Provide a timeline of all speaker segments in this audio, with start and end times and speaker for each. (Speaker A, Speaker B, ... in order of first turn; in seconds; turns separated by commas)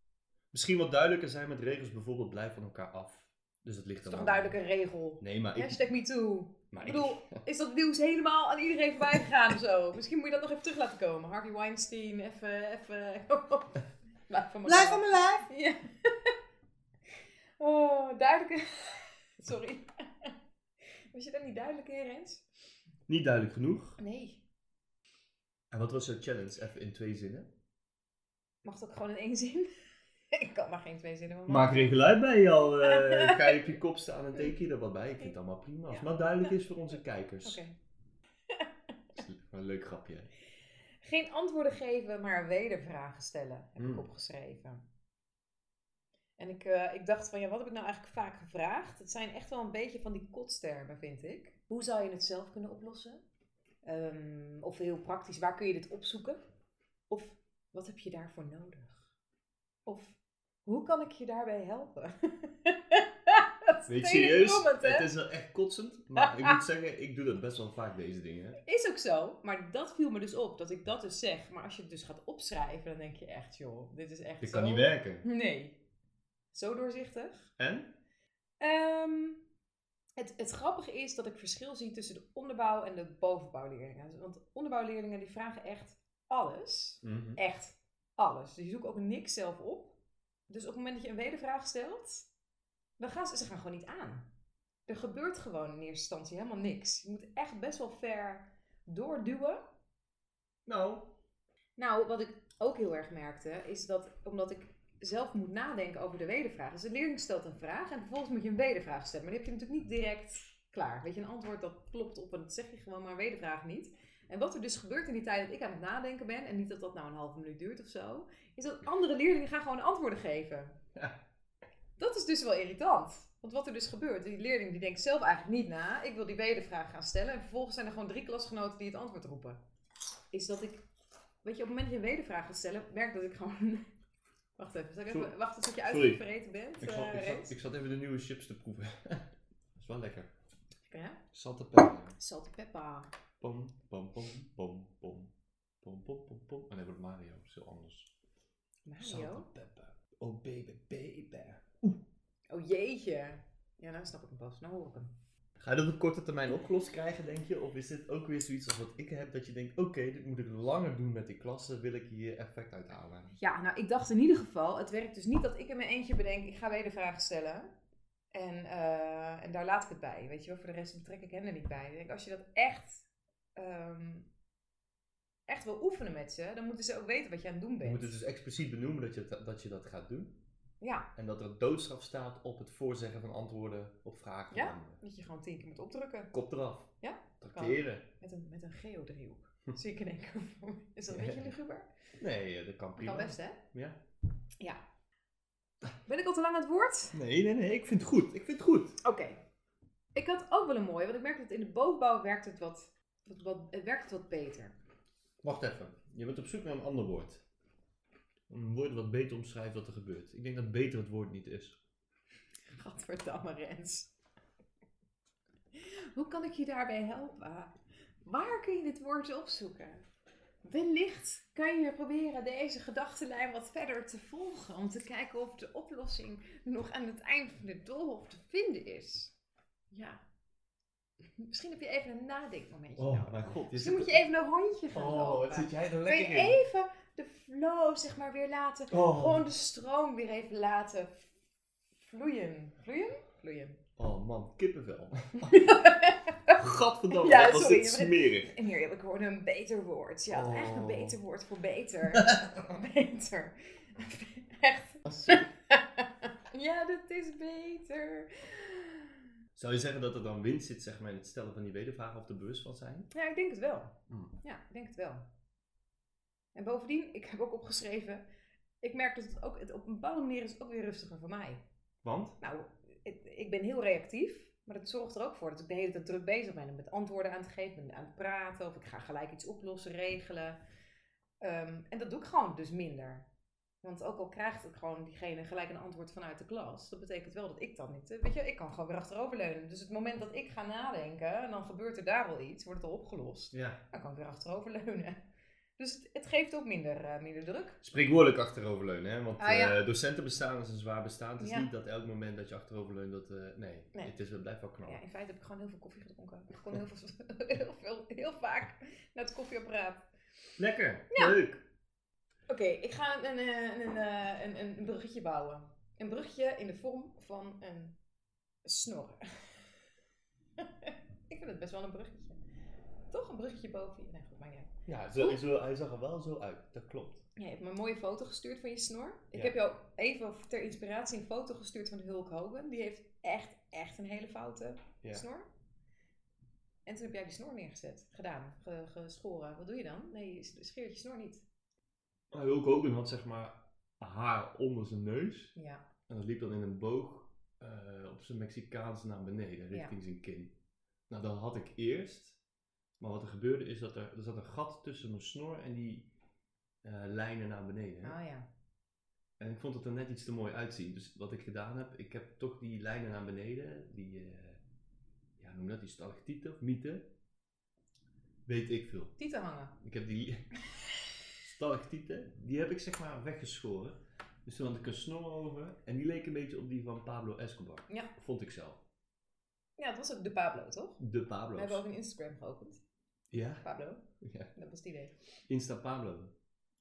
Speaker A: 0.5-4.6, Speaker B: 4.0-16.3, Speaker A: 5.2-5.8, Speaker A: 6.7-7.4, Speaker A: 14.6-15.4, Speaker B: 17.6-20.3, Speaker B: 21.1-22.4, Speaker A: 23.1-24.0, Speaker B: 24.0-24.4, Speaker A: 25.7-27.5, Speaker B: 28.6-29.7, Speaker B: 30.3-31.9, Speaker A: 31.5-37.6, Speaker B: 32.8-33.6, Speaker B: 35.9-36.5, Speaker B: 37.4-37.7, Speaker A: 39.1-40.3, Speaker B: 41.0-44.8, Speaker A: 43.8-44.1, Speaker B: 46.4-53.2, Speaker B: 53.8-56.4, Speaker B: 57.1-59.1, Speaker B: 59.9-65.1, Speaker A: 63.9-68.6, Speaker B: 66.2-66.6, Speaker B: 68.6-75.8, Speaker A: 74.4-75.2, Speaker B: 76.5-77.5, Speaker A: 77.6-77.9, Speaker B: 78.6-79.4, Speaker B: 80.2-90.0, Speaker A: 87.0-87.4, Speaker B: 90.5-92.3, Speaker B: 93.0-94.3, Speaker B: 94.9-99.6, Speaker A: 100.7-101.1, Speaker B: 101.8-120.8, Speaker B: 122.0-129.6, Speaker B: 130.3-130.8, Speaker B: 131.4-133.9, Speaker B: 134.6-137.5, Speaker A: 135.1-136.2, Speaker A: 136.8-140.3, Speaker B: 140.9-141.2, Speaker A: 141.3-142.2, Speaker B: 142.2-143.1, Speaker A: 143.4-145.3, Speaker A: 145.8-148.1, Speaker B: 148.8-149.5, Speaker A: 149.0-152.0, Speaker B: 152.5-155.1, Speaker A: 155.6-163.4, Speaker B: 163.4-167.7, Speaker B: 168.3-174.3, Speaker B: 175.5-178.1, Speaker A: 177.8-180.3, Speaker B: 180.8-181.1, Speaker A: 181.2-185.0, Speaker B: 184.5-186.3, Speaker A: 186.3-188.1, Speaker B: 187.0-191.9, Speaker A: 191.1-191.5, Speaker A: 192.2-194.0, Speaker B: 193.0-193.6, Speaker B: 196.1-197.2, Speaker A: 197.1-199.0, Speaker B: 199.0-199.4, Speaker B: 200.1-204.7, Speaker A: 205.4-207.4, Speaker A: 208.5-211.8, Speaker B: 212.7-214.1, Speaker B: 215.7-217.7, Speaker B: 218.2-220.0, Speaker B: 220.6-229.3, Speaker B: 229.9-230.2, Speaker B: 231.4-241.2, Speaker A: 233.0-234.2, Speaker A: 234.9-236.6, Speaker A: 238.9-239.4, Speaker B: 242.0-243.8, Speaker A: 244.0-245.8, Speaker B: 245.4-246.6, Speaker A: 246.5-248.5, Speaker B: 247.1-259.2, Speaker A: 250.3-251.2, Speaker A: 252.1-252.6, Speaker A: 255.0-255.5, Speaker A: 259.6-263.1, Speaker B: 263.1-265.2, Speaker A: 264.1-264.3, Speaker B: 266.5-268.2, Speaker B: 268.8-271.6, Speaker A: 272.0-272.4, Speaker B: 272.4-280.6, Speaker B: 281.4-283.3, Speaker B: 283.8-295.2, Speaker A: 293.5-293.8, Speaker B: 295.8-297.8, Speaker A: 297.8-305.0, Speaker B: 299.4-299.8, Speaker B: 301.4-301.7, Speaker B: 304.8-310.1, Speaker A: 310.6-311.6, Speaker B: 311.1-311.4, Speaker B: 312.5-317.9, Speaker B: 318.6-319.6, Speaker B: 320.6-322.4, Speaker B: 323.1-325.4, Speaker A: 324.9-327.2, Speaker B: 327.4-335.5, Speaker B: 336.9-341.4, Speaker A: 342.3-345.5, Speaker B: 345.6-345.8, Speaker A: 346.1-350.5, Speaker A: 351.1-352.4, Speaker A: 353.0-356.1, Speaker A: 356.8-358.2, Speaker B: 358.0-358.5, Speaker A: 359.4-364.6, Speaker A: 365.4-367.1, Speaker A: 368.4-369.1, Speaker B: 369.2-369.8, Speaker A: 369.8-370.5, Speaker A: 371.4-378.8, Speaker B: 379.8-381.0, Speaker A: 381.0-381.8, Speaker B: 381.5-382.8, Speaker A: 383.3-383.6, Speaker B: 383.6-384.0, Speaker A: 384.2-384.5, Speaker B: 384.5-385.1, Speaker A: 385.5-386.3